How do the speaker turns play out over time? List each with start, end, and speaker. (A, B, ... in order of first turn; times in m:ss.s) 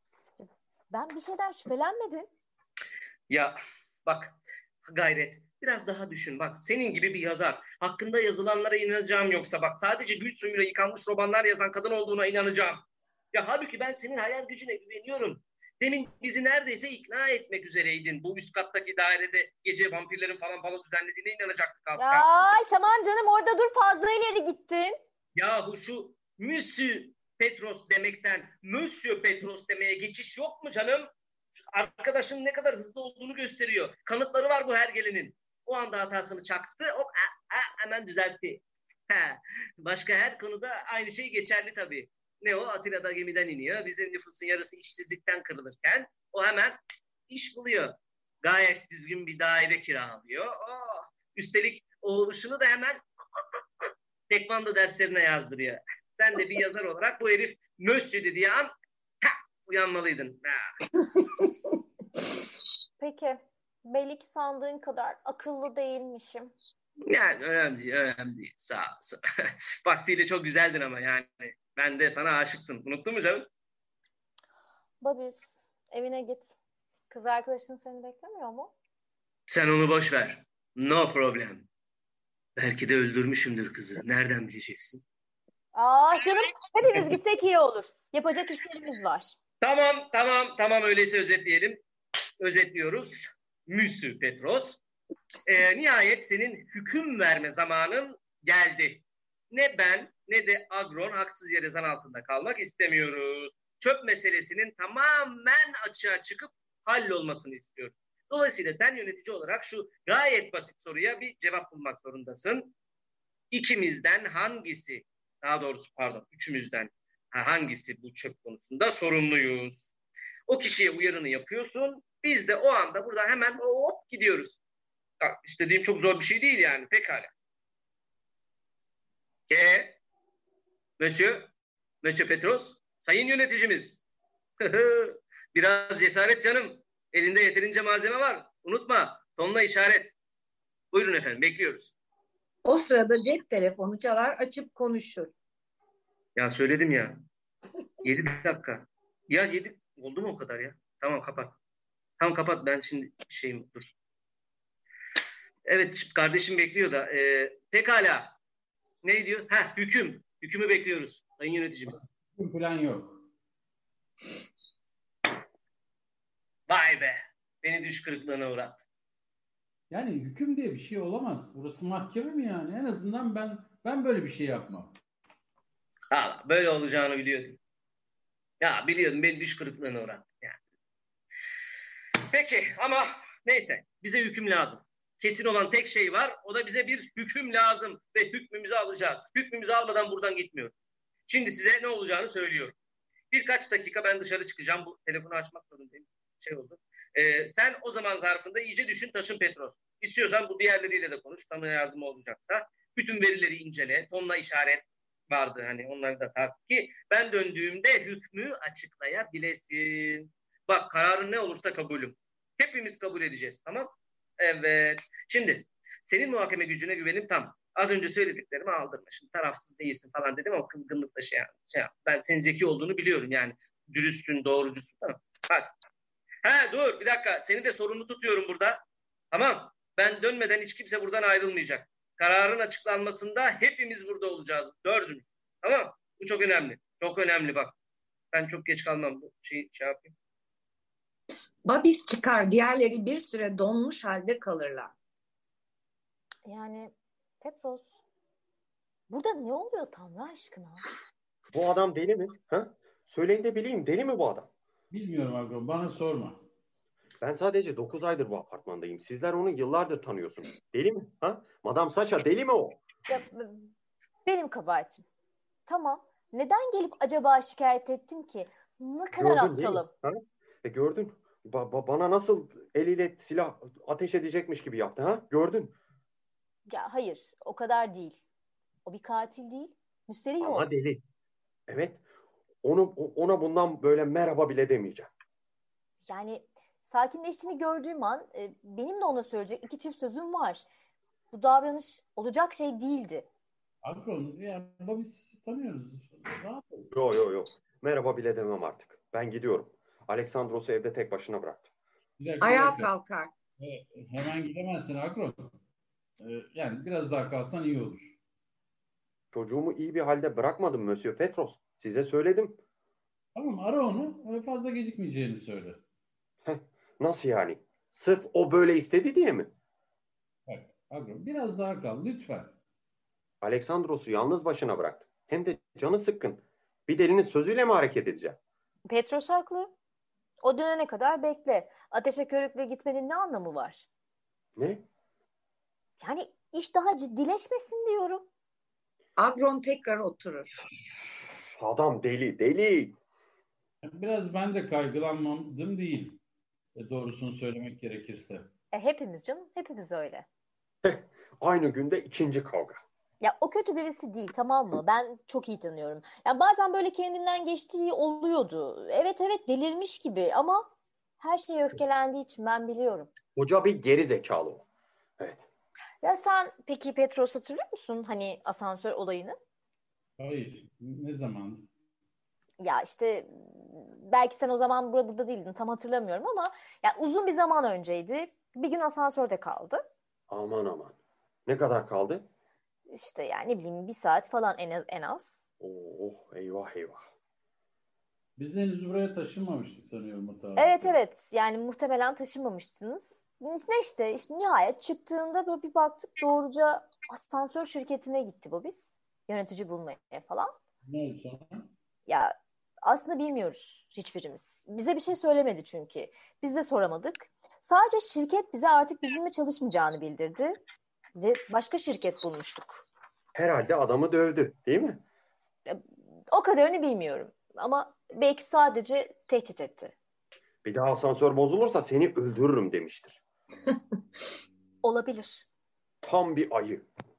0:00.4-0:02.3 A
0:03.3-0:04.4 B
0:04.9-0:22.3 B
0:22.0-0:25.0 A
0:25.4-0:46.8 B
0:47.3-0:53.0 B
0:54.3-0:58.7 B
0:59.2-1:00.6 B
1:03.0-1:06.5 A
1:07.1-1:13.5 B
1:15.0-1:16.6 A
1:17.1-1:18.7 A
1:19.5-1:21.7 B
1:22.6-1:25.0 B
1:25.7-1:29.3 A
1:29.6-1:31.8 B
1:32.4-1:34.8 B
1:35.4-1:52.7 B
1:53.5-1:59.9 B
2:00.5-2:04.6 B
2:05.2-2:07.3 B
2:09.5-2:10.0 B
2:11.0-2:11.5 B
2:12.0-2:14.0 B
2:14.6-2:20.1 B
2:20.9-2:21.9 B
2:22.6-2:25.3 C
2:26.4-2:27.2 B
2:28.0-2:31.6 B
2:32.2-2:33.9 B
2:35.6-2:38.3 B
2:39.0-2:42.0 B
2:42.4-2:43.2 D
2:46.7-2:48.8 B
2:49.9-2:55.0 D
2:56.1-2:57.6 B
2:58.6-3:00.6 B
3:02.3-3:10.7 B
3:11.3-3:12.7 B
3:13.3-3:45.7 B
3:46.4-3:48.8 B
3:49.3-3:57.7 B
3:58.3-4:00.1 B
4:01.6-4:04.9 C
4:06.5-4:08.0 A
4:09.1-4:10.8 A
4:11.5-4:14.5 E
4:14.9-4:16.4 D
4:17.2-4:22.8 E
4:23.1-4:23.7 A
4:24.2-4:25.0 A
4:25.7-4:29.9 A
4:29.1-4:35.7 E
4:36.7-4:38.2 A
4:38.8-4:40.7 A
4:40.4-4:41.0 E
4:41.7-4:42.0 E
4:42.6-4:45.1 E
4:46.1-4:50.6 A
4:51.3-4:53.3 A
4:53.8-4:56.9 D
4:56.9-5:01.7 E
5:02.2-5:02.9 D
5:02.4-5:03.3 C
5:03.6-5:05.5 D
5:06.2-5:08.2 D
5:09.3-5:12.6 E
5:13.3-5:15.8 D
5:16.4-5:19.5 E
5:20.5-5:22.5 D
5:23.4-5:28.4 E
5:28.9-5:29.7 A
5:30.4-5:33.8 A
5:34.6-5:34.8 E
5:36.0-5:38.3 A
5:39.2-5:40.5 C
5:41.6-5:43.0 E
5:43.8-5:46.2 D
5:46.7-5:48.5 D
5:48.7-5:50.2 A
5:50.8-5:52.8 E
5:53.2-6:00.7 A
6:01.2-6:03.1 A
6:03.3-6:04.6 E
6:05.2-6:05.4 E
6:06.0-6:09.4 A
6:10.2-6:11.7 D
6:12.6-6:19.8 A
6:20.3-6:20.9 E
6:21.4-6:22.2 E
6:22.9-6:25.4 A
6:25.6-6:27.1 E
6:28.4-6:31.0 D
6:30.6-6:40.5 A
6:40.8-6:41.7 D
6:42.1-6:50.5 A
6:51.2-6:52.8 A
6:53.3-6:55.0 E
6:55.7-6:59.9 A
7:00.6-7:03.2 E
7:04.8-7:05.4 A
7:06.0-7:06.8 E